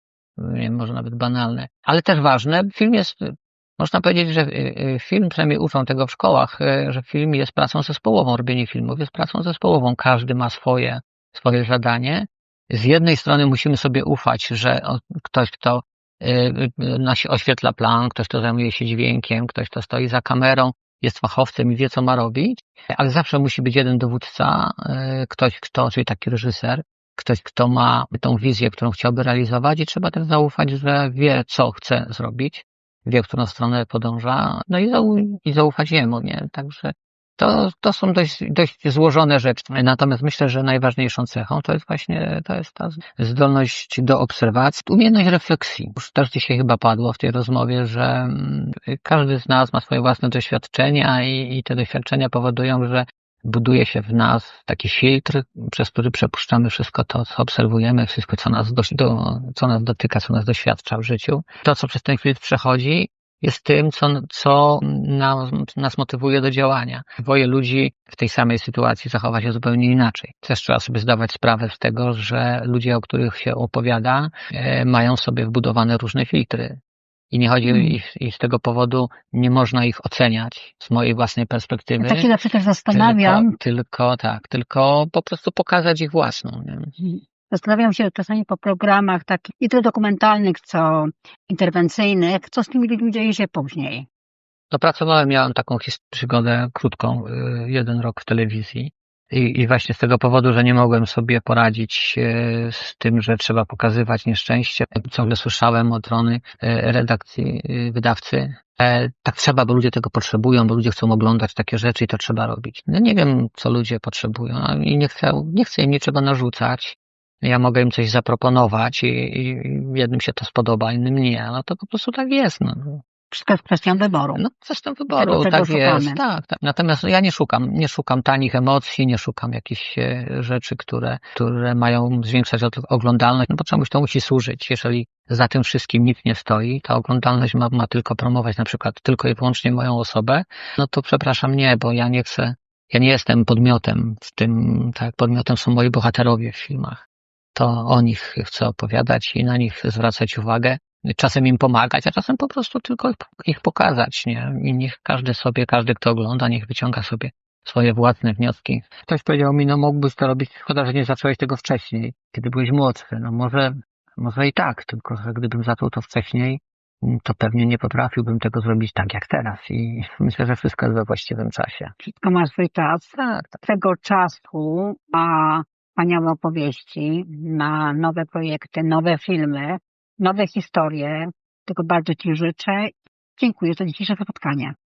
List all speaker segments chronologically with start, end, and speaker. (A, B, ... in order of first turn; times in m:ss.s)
0:00.4-1:16.8 A
1:17.3-1:22.3 A
1:17.7-1:18.0 B
1:22.0-1:23.5 B
1:22.9-1:26.9 A
1:27.0-1:34.1 B
1:34.7-2:03.0 A
2:03.3-2:04.4 B
2:04.4-2:27.0 A
2:05.2-2:06.2 B
2:27.5-2:51.9 A
2:52.0-3:04.7 B